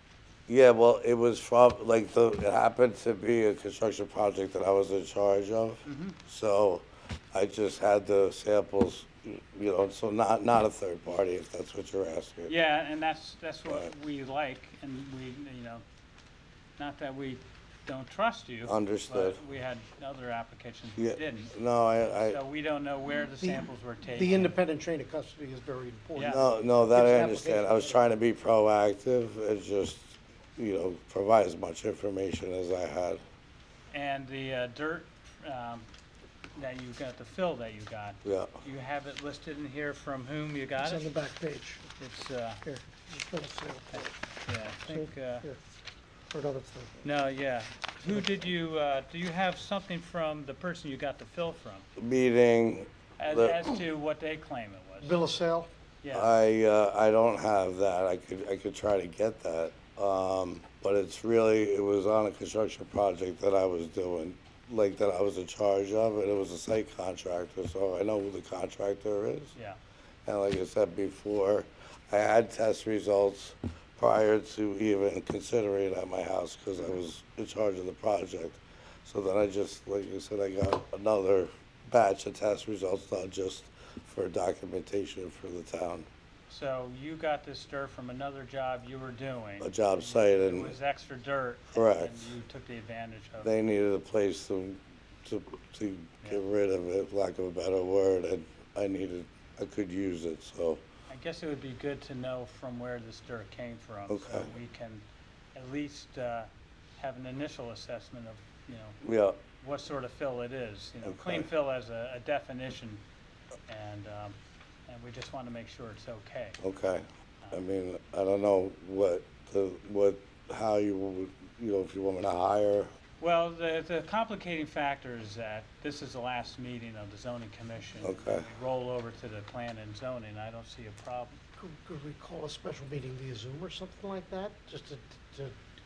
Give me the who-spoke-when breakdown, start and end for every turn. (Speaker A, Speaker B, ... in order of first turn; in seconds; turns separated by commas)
Speaker A: 0.5-12.5, Speaker B: 5.8-6.2, Speaker B: 12.5-15.8, Speaker B: 16.8-24.6, Speaker A: 18.6-19.4, Speaker A: 21.0-22.4, Speaker C: 23.4-28.0, Speaker B: 26.1-26.4, Speaker A: 26.3-33.2, Speaker B: 33.9-35.9, Speaker B: 36.5-41.1, Speaker A: 38.2-38.6, Speaker C: 40.8-41.8, Speaker B: 42.0-42.6, Speaker C: 42.6-44.1, Speaker B: 44.0-45.5, Speaker C: 44.8-45.6, Speaker C: 46.3-47.0, Speaker B: 47.0-51.9, Speaker A: 52.0-53.6, Speaker B: 53.2-55.2, Speaker C: 55.0-55.7, Speaker B: 56.0-56.3, Speaker A: 56.1-69.5, Speaker A: 70.2-86.1, Speaker B: 86.5-93.5, Speaker A: 89.6-90.7, Speaker A: 91.7-92.3, Speaker A: 93.4-100.8, Speaker B: 101.1-109.0, Speaker A: 104.1-104.5, Speaker A: 109.0-109.4, Speaker B: 109.6-113.0, Speaker A: 111.0-111.5, Speaker B: 113.7-116.6, Speaker A: 116.6-122.9, Speaker B: 123.2-131.4, Speaker A: 128.0-128.5, Speaker C: 131.6-135.6